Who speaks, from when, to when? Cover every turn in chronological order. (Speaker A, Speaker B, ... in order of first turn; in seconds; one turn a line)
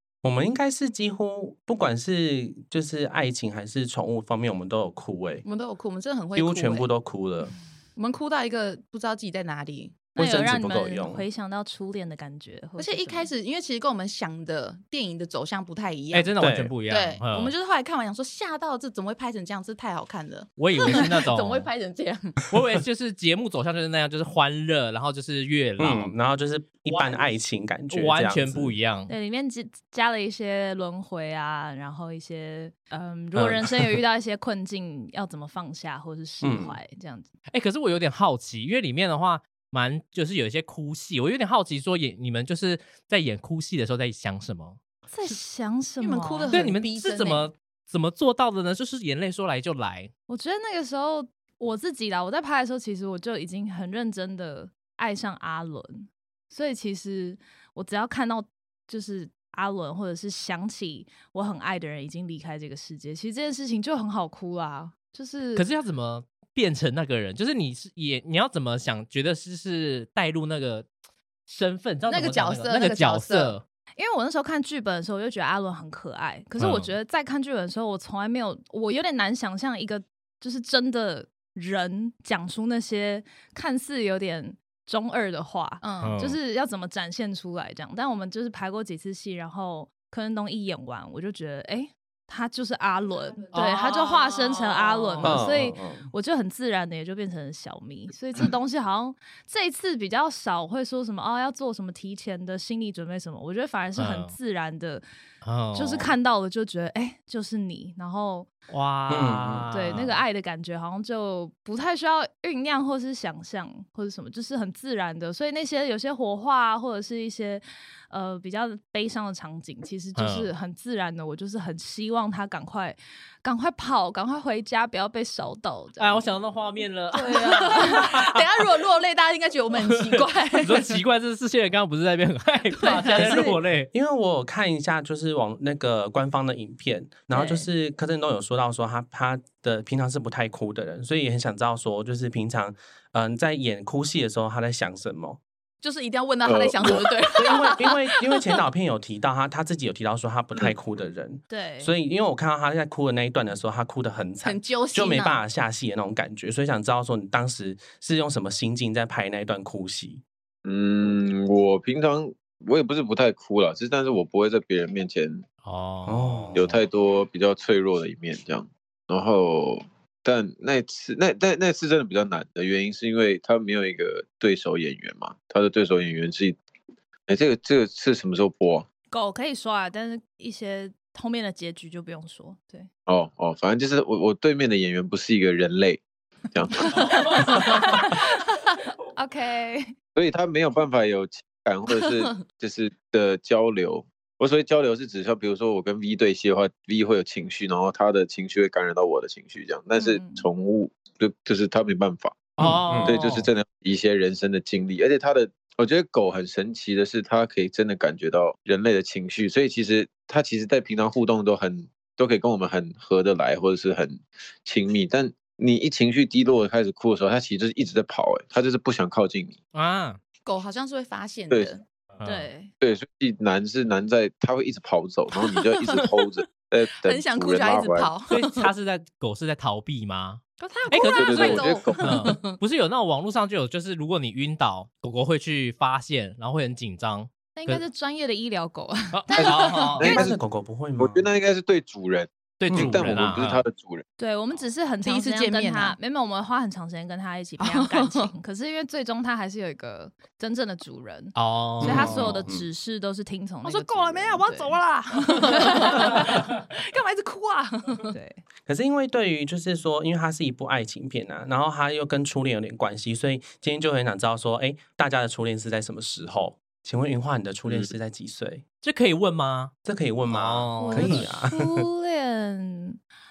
Speaker A: 0.2-5.4
Speaker B: 5.4-6.9
Speaker A: 6.3-7.5
Speaker B: 8.0-10.1
Speaker A: 10.1-11.2
Speaker C: 10.1-13.2
Speaker B: 12.8-22.4
Speaker D: 16.1-17.5
Speaker A: 16.4-16.8
Speaker D: 20.6-21.7
Speaker D: 22.5-26.1
Speaker A: 25.8-28.8
Speaker D: 27.9-29.1
Speaker C: 29.1-37.3
Speaker A: 36.4-36.8
Speaker D: 37.5-44.8
Speaker C: 45.1-46.6
Speaker B: 46.0-47.5
Speaker D: 46.5-50.1
Speaker C: 50.3-65.7
Speaker D: 65.5-70.9
Speaker D: 71.5-73.6
Speaker B: 72.1-73.6
Speaker C: 74.0-105.0
Speaker D: 76.6-76.9
Speaker B: 85.8-86.2
Speaker D: 86.0-86.4
Speaker B: 93.4-95.3
Speaker D: 93.5-94.0
Speaker A: 95.2-96.1
Speaker D: 104.0-104.3
Speaker D: 105.4-106.1
Speaker C: 105.7-108.5
Speaker D: 108.7-110.2
Speaker A: 109.1-110.0
Speaker C: 109.7-126.2
Speaker D: 120.2-120.5
Speaker D: 126.0-128.2
Speaker B: 127.1-131.0
Speaker C: 127.2-128.2
Speaker D: 129.8-133.9
Speaker B: 132.7-133.3
Speaker A: 133.2-145.4
Speaker B: 137.3-137.7
Speaker B: 145.8-148.2
Speaker E: 146.4-147.1
Speaker A: 146.9-160.2
Speaker C: 151.5-151.9
Speaker B: 154.4-155.4
Speaker E: 160.6-165.4
Speaker D: 165.6-166.6
Speaker A: 166.1-166.7
Speaker E: 166.5-176.6
Speaker E: 177.3-178.9
Speaker C: 179.1-182.9
Speaker E: 183.1-187.5
Speaker C: 187.0-188.2
Speaker D: 187.1-187.5
Speaker C: 189.2-189.9
Speaker E: 190.2-219.6
Speaker C: 200.0-200.4
Speaker D: 202.6-203.5
Speaker A: 202.6-203.2
Speaker D: 219.7-220.2
Speaker B: 220.4-221.8
Speaker D: 222.2-222.5
Speaker C: 222.2-222.7
Speaker E: 222.8-228.1
Speaker B: 227.0-228.7
Speaker D: 228.3-237.8
Speaker C: 230.6-232.2
Speaker B: 231.0-232.6
Speaker E: 231.2-232.2
Speaker C: 237.6-240.2
Speaker D: 239.1-240.1
Speaker E: 239.3-240.4
Speaker A: 240.0-241.2
Speaker E: 241.0-244.0
Speaker D: 242.6-243.6
Speaker A: 242.7-243.4
Speaker C: 244.2-256.2
Speaker B: 245.0-245.9
Speaker B: 247.6-248.3
Speaker D: 251.3-252.4
Speaker A: 251.8-252.7
Speaker B: 253.6-258.1
Speaker C: 258.1-258.4
Speaker A: 258.7-268.6
Speaker E: 267.6-267.9
Speaker D: 268.8-269.8
Speaker A: 269.8-271.8
Speaker D: 270.3-271.3
Speaker C: 270.8-273.0